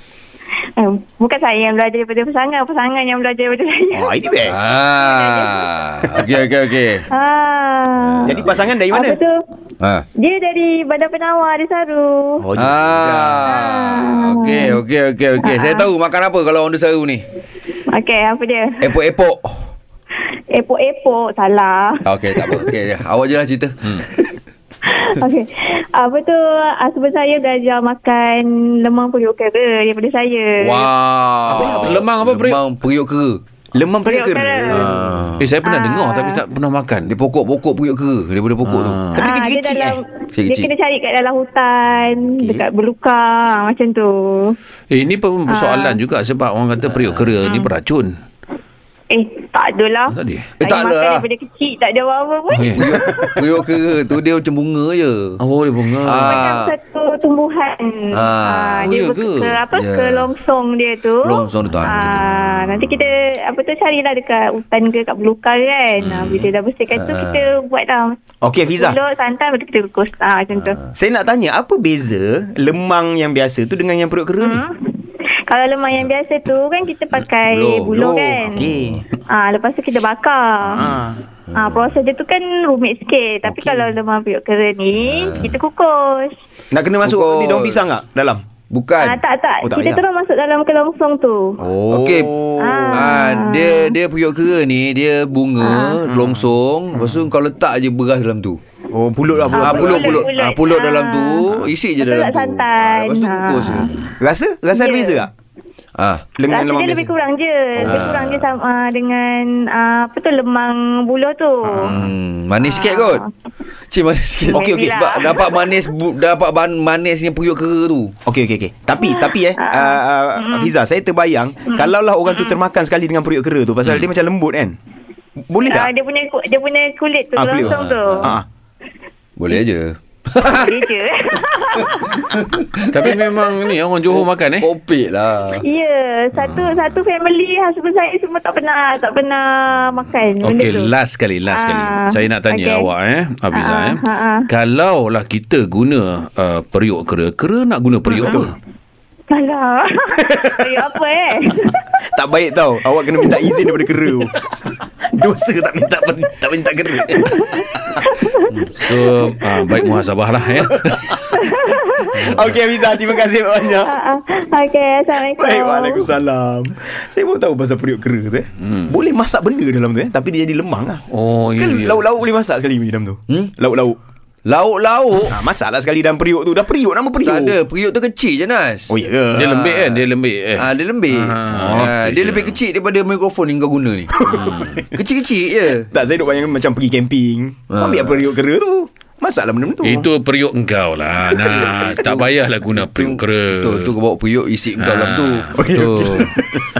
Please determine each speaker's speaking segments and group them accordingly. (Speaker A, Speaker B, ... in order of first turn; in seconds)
Speaker A: 0.8-5.7, 7.1-9.3, 10.2-12.4, 13.5-14.8, 15.4-15.9, 17.9-18.9, 20.3-22.4, 24.9-30.9, 34.0-34.9, 35.6-36.4, 39.2-44.5, 45.5-46.0, 47.4-47.7, 49.1-52.8, 56.2-68.1, 68.8-70.8, 74.4-74.8, 75.5-78.7, 79.3-80.8, 81.5-86.3, 89.0-91.6, 92.6-93.9, 95.6-96.0, 99.5-101.5, 102.0-103.9, 104.7-105.2, 106.5-111.9, 112.6-113.3, 114.5-115.9, 119.0-120.7, 121.7-122.6, 125.7-128.3, 130.4-132.4, 135.6-140.9, 141.5-142.9, 143.5-144.5, 148.1-148.4, 149.3-151.9, 157.3-159.9, 161.3-162.3, 163.8-166.1
Speaker B: 3.9-4.6, 8.2-9.2, 12.4-13.4, 31.5-32.0, 33.7-35.0, 39.1-40.0, 42.3-42.7, 68.4-69.0, 70.9-74.6, 78.5-79.0, 80.8-81.2, 86.7-88.4, 89.6-90.0, 91.6-93.1, 96.0-97.3, 98.9-100.3, 104.2-105.3, 106.3-107.1, 107.8-108.1, 111.6-112.1, 114.5-115.1, 118.2-124.8, 125.5-125.9, 127.3-128.4, 148.2-148.5, 150.2-150.9, 152.1-154.3, 155.0-157.8, 160.9-161.2, 162.1-163.9, 165.1-171.0, 171.6-174.0, 175.3-177.6, 178.9-180.0, 181.5-181.8, 184.1-184.9, 185.8-190.1, 195.6-196.7
Speaker C: 4.5-7.0, 8.0-8.5, 9.8-10.1, 12.6-17.2, 18.8-19.7, 22.0-24.4, 30.6-33.4, 34.7-35.5, 37.0-39.0, 40.3-40.7, 46.9-47.4, 50.6-51.2, 52.8-55.4, 56.0-56.7, 58.1-58.9, 59.7-60.3, 61.2-62.9, 66.1-66.3, 66.9-67.5, 70.5-70.9, 77.4-79.0, 80.7-81.0, 81.5-81.9, 83.5-83.9, 85.0-85.6, 87.0-87.8, 88.7-89.2, 91.9-92.3, 92.9-98.6, 99.6-103.9, 106.0-106.2, 107.8-108.5, 111.8-113.2, 113.9-118.1, 127.6-128.3, 129.4-130.9, 131.7-133.4, 134.1-135.6, 174.4-175.4, 177.2-178.9, 180.6-184.2, 184.9-185.9, 187.7-188.2, 191.5-195.5
Speaker D: 31.8-32.6, 35.4-37.1, 38.6-39.2, 44.9-48.1, 50.1-50.5, 52.5-53.0, 55.4-56.4, 58.8-59.6, 66.0-66.5, 123.8-124.1, 132.9-134.7, 140.4-148.5, 158.7-161.2, 168.6-169.0, 171.1-172.1, 179.3-182.6, 184.3-184.8, 189.8-193.9, 194.8-196.3